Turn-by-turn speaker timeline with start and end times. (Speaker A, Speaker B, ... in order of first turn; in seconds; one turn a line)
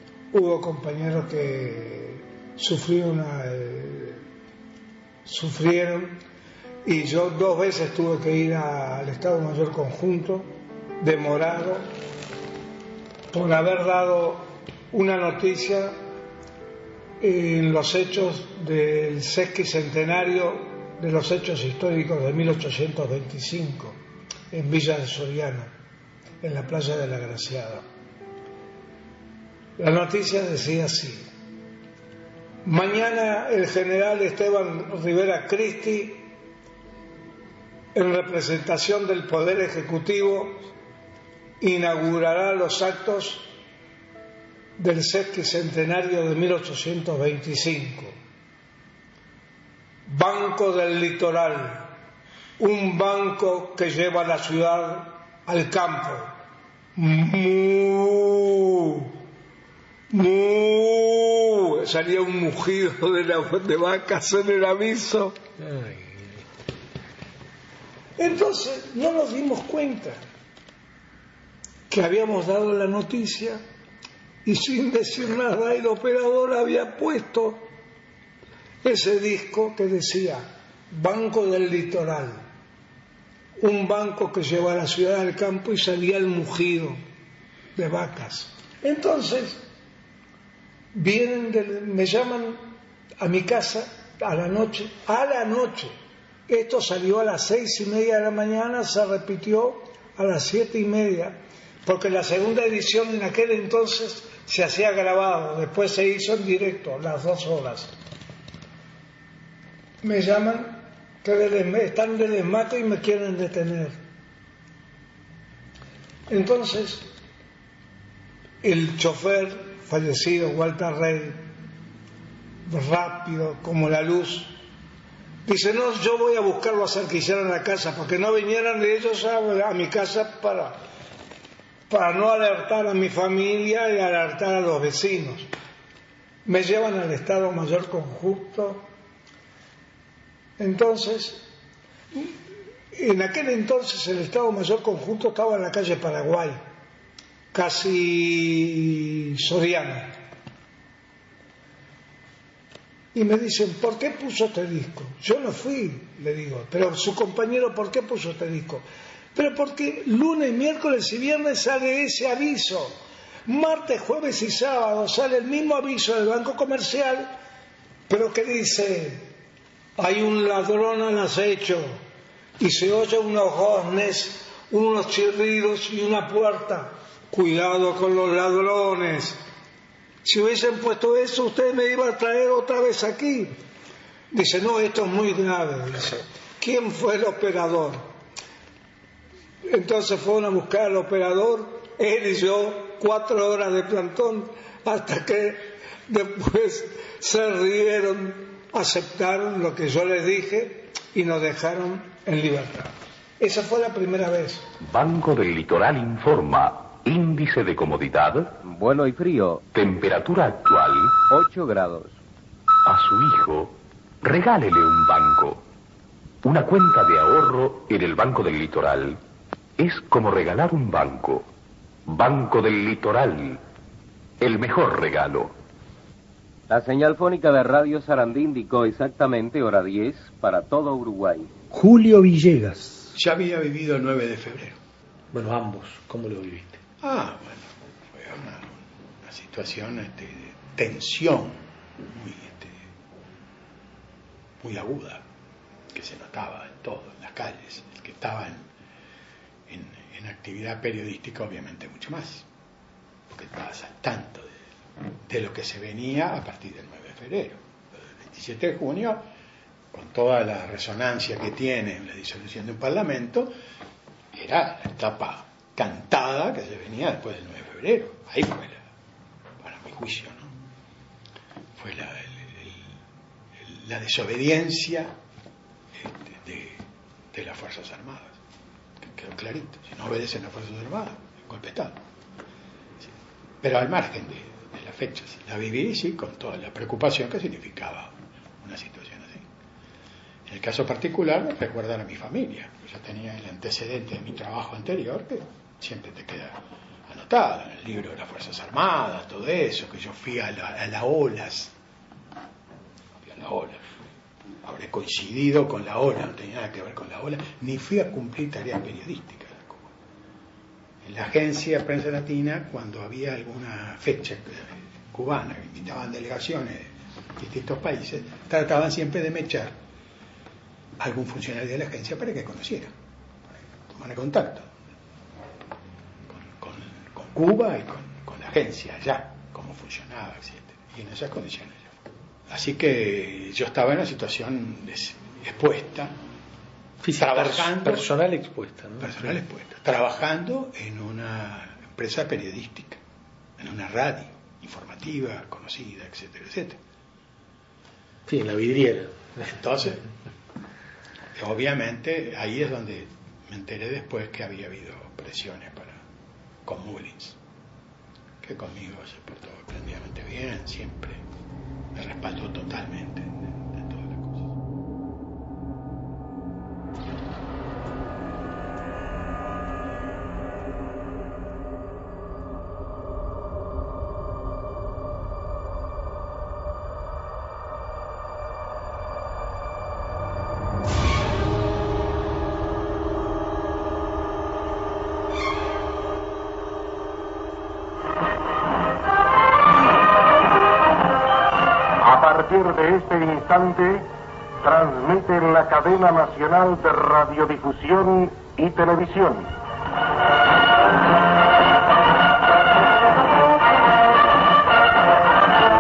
Speaker A: 0.3-4.2
Speaker A: 5.2-6.2
Speaker A: 6.8-11.9
Speaker A: 13.3-15.9
Speaker A: 17.2-24.0
Speaker A: 24.5-25.7
Speaker A: 26.4-27.8
Speaker A: 29.8-31.3
Speaker A: 32.6-36.3
Speaker A: 37.9-40.7
Speaker A: 41.6-43.6
Speaker A: 44.8-48.1
Speaker A: 50.1-51.9
Speaker A: 52.6-56.3
Speaker A: 57.0-59.2
Speaker A: 60.1-65.4
Speaker A: 68.2-70.2
Speaker A: 71.9-73.6
Speaker A: 74.5-77.7
Speaker A: 78.8-82.4
Speaker A: 83.6-87.0
Speaker A: 87.8-89.6
Speaker A: 90.9-92.7
Speaker A: 93.2-95.9
Speaker A: 96.5-107.9
Speaker A: 110.0-114.0
Speaker A: 116.3-117.1
Speaker A: 118.6-121.5
Speaker A: 122.7-124.6
Speaker A: 125.5-130.8
Speaker A: 131.9-135.5
Speaker A: 136.4-138.9
Speaker A: 140.6-141.5
Speaker A: 142.9-146.6
Speaker A: 147.5-150.2
Speaker A: 153.1-167.3
Speaker A: 168.1-169.3
Speaker A: 170.0-172.0
Speaker A: 172.6-179.4
Speaker A: 180.2-183.6
Speaker A: 184.3-188.1
Speaker A: 189.7-204.7
Speaker B: 204.8-208.5
Speaker C: 208.6-209.6
Speaker B: 209.7-211.2
Speaker C: 211.3-212.1
Speaker B: 212.9-215.6
Speaker B: 216.4-219.2
Speaker B: 219.8-221.5
Speaker B: 222.1-223.6
Speaker B: 224.4-225.5
Speaker C: 226.7-231.5
Speaker D: 231.7-233.1
Speaker E: 233.1-234.8
Speaker D: 235.3-236.8
Speaker E: 237.0-242.8
Speaker E: 244.6-245.2
Speaker E: 245.9-248.7
Speaker E: 249.7-252.4
Speaker E: 253.3-254.6
Speaker E: 255.3-257.6
Speaker E: 258.2-259.3
Speaker E: 259.9-263.5
Speaker E: 264.3-268.8
Speaker E: 269.6-270.5
Speaker E: 271.8-272.9
Speaker E: 273.6-275.1
Speaker E: 275.9-278.4
Speaker E: 279.0-282.0
Speaker E: 283.6-289.5
Speaker E: 290.5-301.7
Speaker E: 303.2-303.8
Speaker E: 304.6-309.9
Speaker E: 311.0-319.8
Speaker E: 321.0-322.9
Speaker E: 323.9-324.7
Speaker E: 326.3-331.9
Speaker E: 332.5-336.1
Speaker D: 337.0-339.4
Speaker E: 337.2-338.1
Speaker E: 339.0-343.0
Speaker E: 343.6-346.8
Speaker D: 348.3-349.6
Speaker E: 349.4-350.0
Speaker E: 351.4-356.0
Speaker E: 356.7-357.4
Speaker E: 358.4-361.2
Speaker E: 361.9-364.5
Speaker F: 392.0-394.1
Speaker F: 394.6-399.5